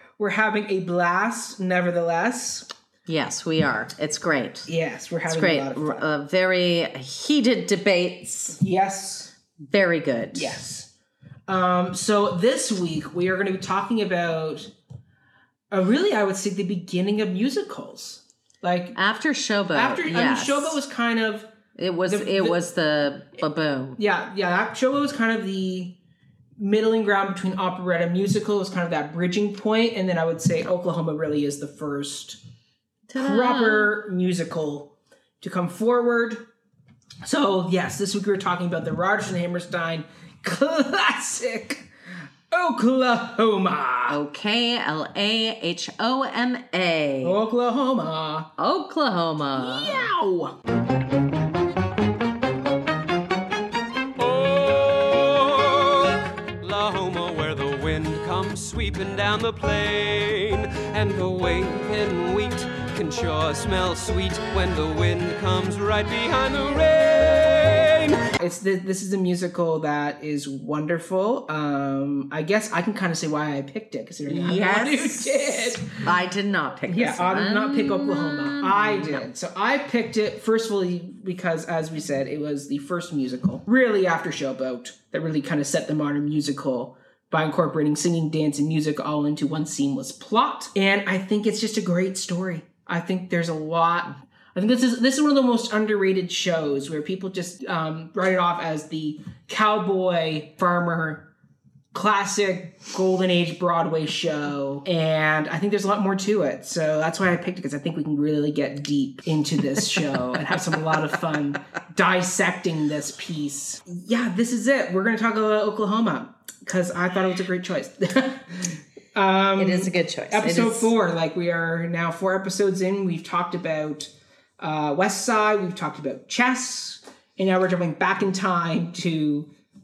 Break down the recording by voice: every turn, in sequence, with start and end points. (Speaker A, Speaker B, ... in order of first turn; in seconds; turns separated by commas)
Speaker A: 0.2-2.7, Speaker B: 3.1-4.7, Speaker A: 4.7-6.1, Speaker B: 5.3-8.6, Speaker A: 8.6-9.3, Speaker B: 9.7-10.6, Speaker A: 10.3-10.9, Speaker A: 11.5-14.7, Speaker A: 15.7-19.0, Speaker B: 18.9-20.8, Speaker A: 19.7-21.5, Speaker B: 21.8-24.0, Speaker A: 22.1-22.6, Speaker A: 24.0-26.0, Speaker A: 26.6-32.4, Speaker B: 33.1-33.9, Speaker A: 33.1-36.5, Speaker A: 37.2-41.9, Speaker A: 42.5-44.2, Speaker B: 44.1-47.4, Speaker A: 47.2-48.5, Speaker B: 48.6-50.0, Speaker A: 49.5-50.5, Speaker C: 54.2-68.3, Speaker A: 68.4-75.9, Speaker B: 74.3-79.3, Speaker A: 76.9-101.3, Speaker A: 101.9-129.5, Speaker B: 119.5-120.9